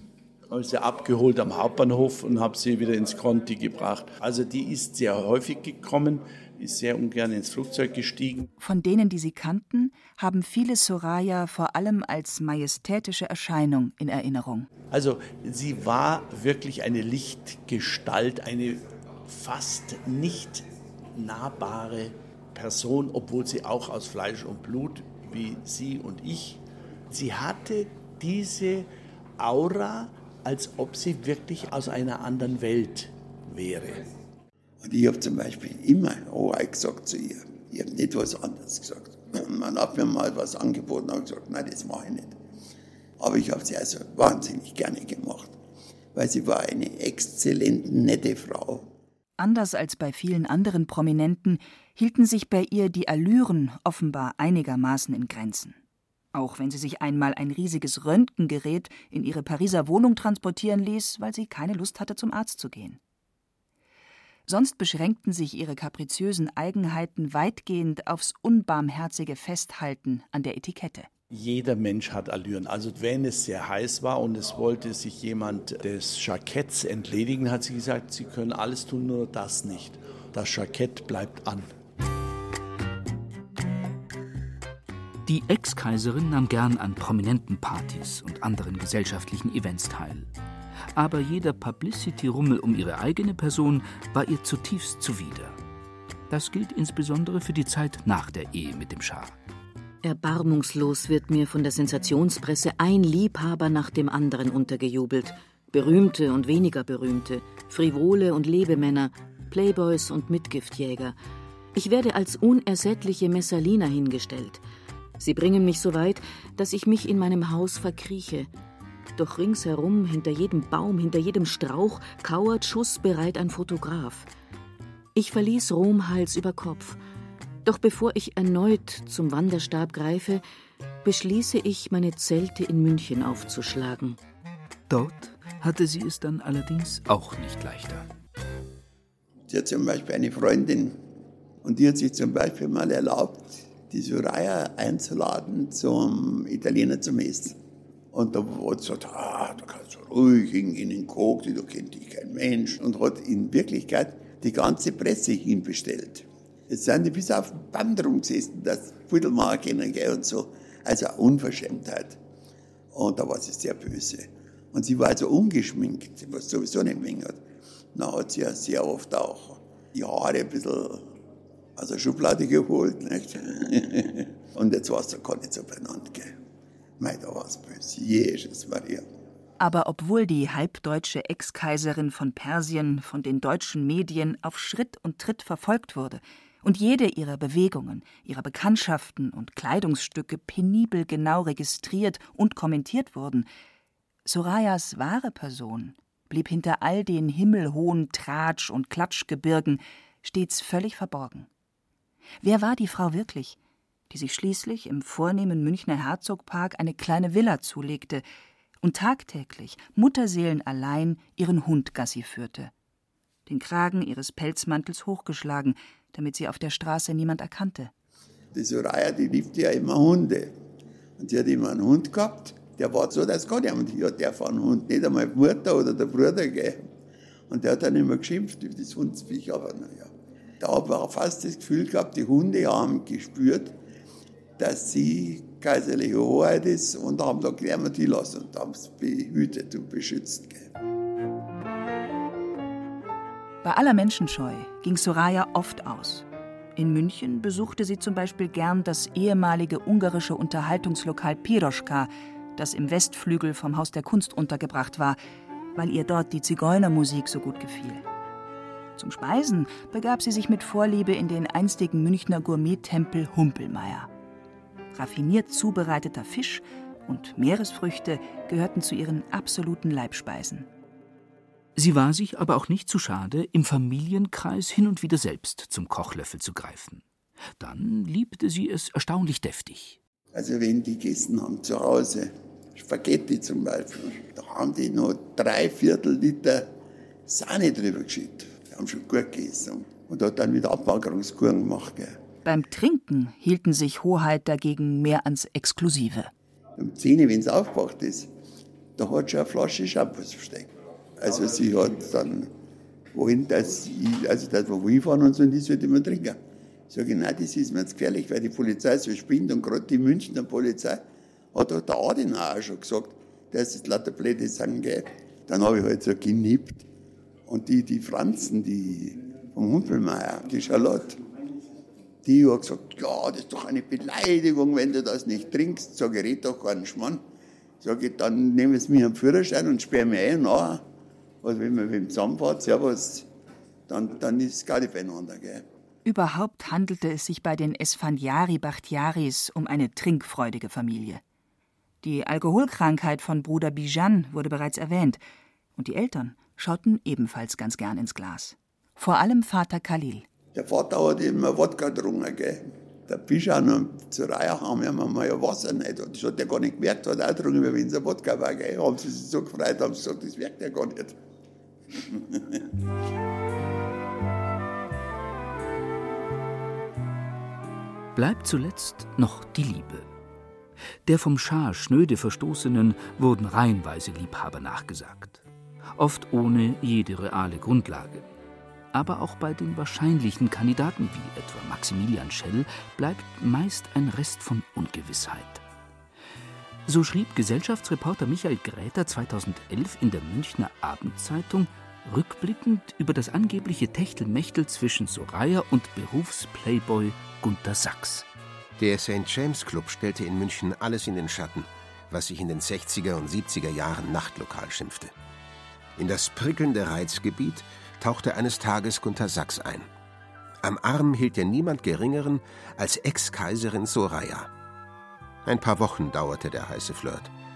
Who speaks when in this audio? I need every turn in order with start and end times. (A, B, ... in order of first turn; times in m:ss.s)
0:00.5-0:08.5 A
0:08.6-0:14.7 B
0:14.9-0:34.1 A
0:34.8-0:42.4 C
0:43.2-0:45.6 C
0:46.2-0:48.9 C
0:49.4-0:55.8 B
0:56.3-1:03.0 B
1:04.5-1:11.1 B
1:11.3-1:21.7 A
1:25.3-1:30.3 D
1:30.9-1:35.6 D
1:36.3-1:39.4 D
1:40.0-1:51.2 E
1:51.8-1:54.6 E
1:55.2-1:58.5 E
1:59.2-2:04.3 E
2:05.2-2:07.0 E
2:07.6-2:10.4 E
2:11.0-2:14.2 E
2:14.9-2:18.1 D
2:19.5-2:21.0 C
2:21.6-2:27.6 C
2:28.1-2:42.2 C
2:42.9-2:47.4 C
2:48.0-2:51.1 C
2:51.8-2:56.3 C
2:57.0-2:59.0 C
2:59.6-3:13.5 B
3:14.2-3:21.5 B
3:22.4-3:23.6 B
3:24.1-3:28.2 B
3:28.8-3:32.7 B
3:33.5-3:37.9 B
3:38.5-3:40.5 C
3:41.2-3:46.9 C
3:47.5-3:53.8 C
3:54.6-4:00.7 C
4:03.6-4:15.2 B
4:15.8-4:18.1 B
4:19.0-4:24.1 B
4:24.9-4:30.7 B
4:31.8-4:37.0 D
4:37.6-4:40.0 D
4:40.3-4:46.7 C
4:47.3-4:52.2 C
4:52.5-4:56.3 B
4:56.8-4:58.3 C
4:59.0-5:02.5 C
5:03.1-5:06.4 C
5:06.9-5:11.0 C
5:11.5-5:16.9 C
5:17.5-5:21.2 C
5:22.2-5:27.2 C
5:27.8-5:30.8 C
5:31.4-5:33.3 C
5:33.9-5:35.6 C
5:36.0-5:41.2 B
5:42.0-5:45.2 B
5:45.8-5:50.3 B
5:50.5-6:01.2 C
6:01.9-6:02.7 C
6:08.2-6:10.1 D
6:11.1-6:15.4 D
6:16.0-6:18.3 D
6:18.9-6:25.6 D
6:26.9-6:38.3 D
6:38.8-6:45.1 F
6:46.0-6:49.9 F
6:50.6-6:54.5 F
6:55.4-6:57.3 F